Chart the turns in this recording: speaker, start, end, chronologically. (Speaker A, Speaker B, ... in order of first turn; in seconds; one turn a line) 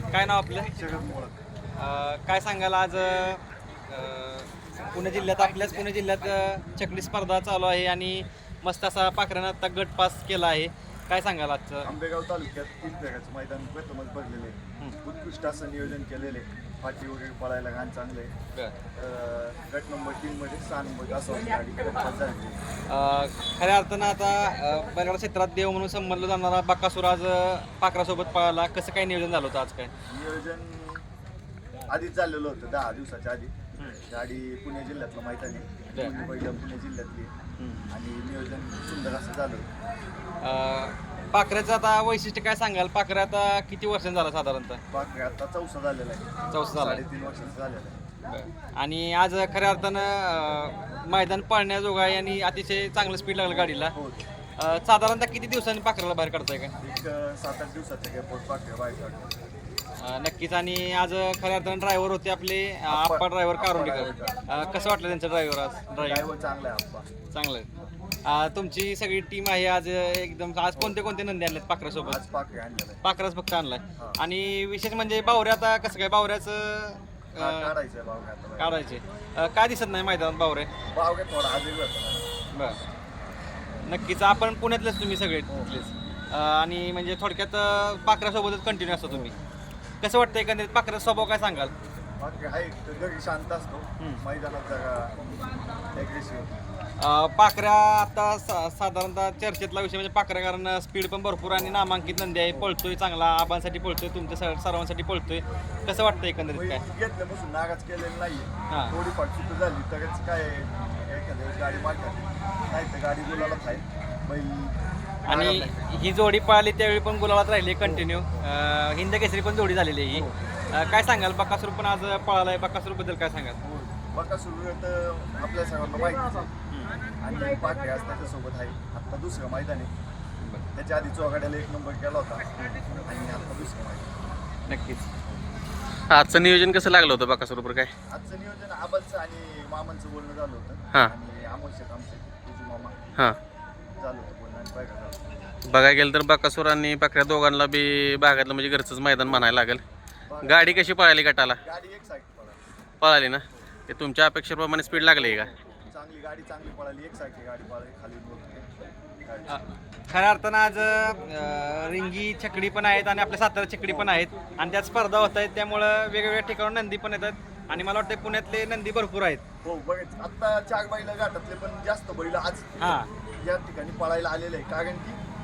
Speaker A: 0.1-0.7
Speaker B: 0.7-1.4
Speaker A: 1.8-11.9
Speaker B: 11.8-18.3
Speaker B: 18.9-22.6
Speaker A: 22.9-29.9
Speaker B: 30.1-31.0
Speaker B: 31.9-37.3
Speaker A: 37.6-37.9
Speaker B: 37.9-39.7
Speaker A: 40.4-44.8
Speaker B: 44.9-48.0
Speaker A: 46.5-47.0
Speaker A: 48.2-53.9
Speaker B: 53.5-54.2
Speaker A: 54.6-56.7
Speaker B: 56.8-59.4
Speaker A: 60.0-66.2
Speaker B: 62.9-64.5
Speaker B: 66.0-67.1
Speaker A: 67.3-67.7
Speaker A: 68.2-72.2
Speaker B: 72.0-73.0
Speaker A: 73.0-77.7
Speaker B: 77.4-78.8
Speaker A: 78.6-80.7
Speaker B: 80.9-82.3
Speaker A: 82.5-82.8
Speaker A: 83.8-89.3
Speaker A: 90.0-91.7
Speaker B: 92.2-95.3
Speaker B: 95.9-96.5
Speaker A: 97.0-106.8
Speaker B: 106.5-115.9
Speaker A: 108.7-108.9
Speaker A: 115.3-123.6
Speaker B: 117.8-118.5
Speaker B: 120.1-120.4
Speaker B: 123.6-126.5
Speaker A: 126.7-127.0
Speaker B: 127.2-129.9
Speaker B: 130.7-134.2
Speaker A: 134.7-135.1
Speaker C: 136.1-137.9
Speaker B: 138.1-143.0
Speaker B: 144.0-145.2
Speaker C: 145.7-149.8
Speaker B: 150.3-150.9
Speaker C: 150.4-151.6
Speaker B: 151.6-152.6
Speaker C: 153.0-155.5
Speaker B: 155.9-158.7
Speaker B: 159.2-159.6
Speaker A: 159.5-169.4
Speaker B: 163.9-164.1
Speaker B: 169.6-175.2
Speaker A: 172.8-173.1